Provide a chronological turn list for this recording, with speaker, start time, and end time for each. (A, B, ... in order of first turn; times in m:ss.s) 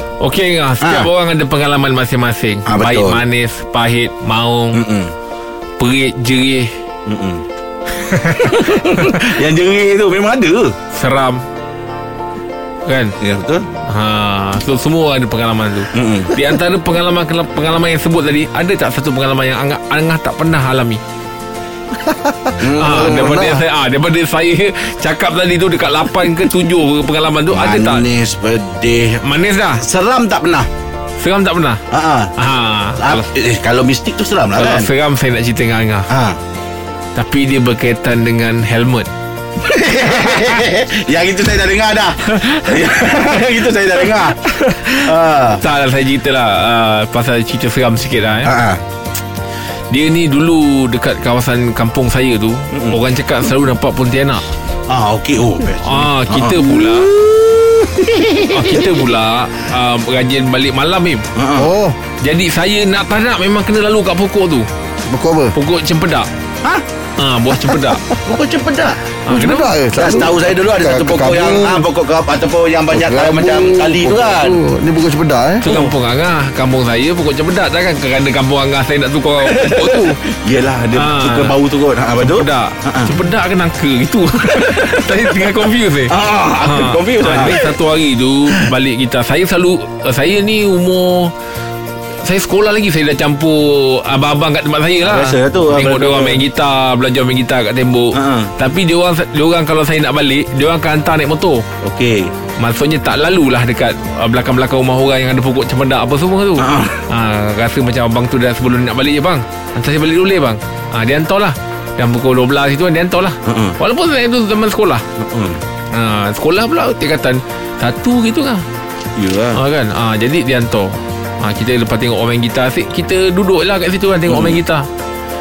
0:00.2-0:04.8 A
0:00.8-0:01.1 B
0:02.7-0:03.2 B
0:04.7-0:05.1 B
0:05.8-0:06.7 A
0:07.1-0:07.4 B
0:08.1-0:08.5 A
0:08.3-0:10.8 B
0:10.9-0:11.4 A
0:12.9-0:13.1 A
0:13.2-0:13.7 B
0:13.9-0:21.0 A
0:15.9-0:16.4 B
0:22.0-0:23.6 C
0:22.6-0:23.6 B
0:22.8-0:28.1 A
0:27.5-0:29.2 B
0:29.2-0:29.8 A
0:29.8-0:30.7 B
0:31.2-0:31.8 A
0:31.9-0:32.3 B
0:32.4-0:33.3 A
0:33.0-0:34.9 B
0:34.6-0:36.1 A
0:36.1-0:36.4 B
0:37.2-0:39.1 A
0:39.6-0:45.6 B
0:42.4-0:42.9 A
0:44.4-0:48.5 A
0:48.4-0:48.8 B
0:49.9-0:54.4 A
0:52.7-0:53.0 B
0:54.9-0:59.0 B
0:55.8-0:57.1 A
0:58.5-1:01.2 A
1:01.4-1:01.7 B
1:01.6-1:02.0 C
1:02.2-1:04.7 A
1:05.1-1:05.6 C
1:05.5-1:06.3 A
1:07.2-1:08.0 A
1:07.6-1:08.0 C
1:08.2-1:09.1 B
1:09.3-1:09.7 A
1:09.3-1:11.9 C
1:09.9-1:14.6 B
1:12.9-1:15.7 C
1:15.6-1:20.2 A
1:15.7-1:15.9 B
1:19.4-1:23.1 B
1:20.9-1:21.6 A
1:22.2-1:31.3 A
1:24.5-1:25.5 B
1:26.1-1:27.7 B
1:32.2-1:41.6 A
1:35.0-1:36.4 B
1:38.1-1:38.5 B
1:41.8-1:42.3 B
1:42.6-1:55.0 A
1:46.6-1:47.1 B
1:53.5-1:53.8 B
1:55.2-1:55.6 B
1:55.9-1:58.6 A
1:59.2-1:59.6 B
1:59.5-2:04.9 A
2:04.3-2:04.6 B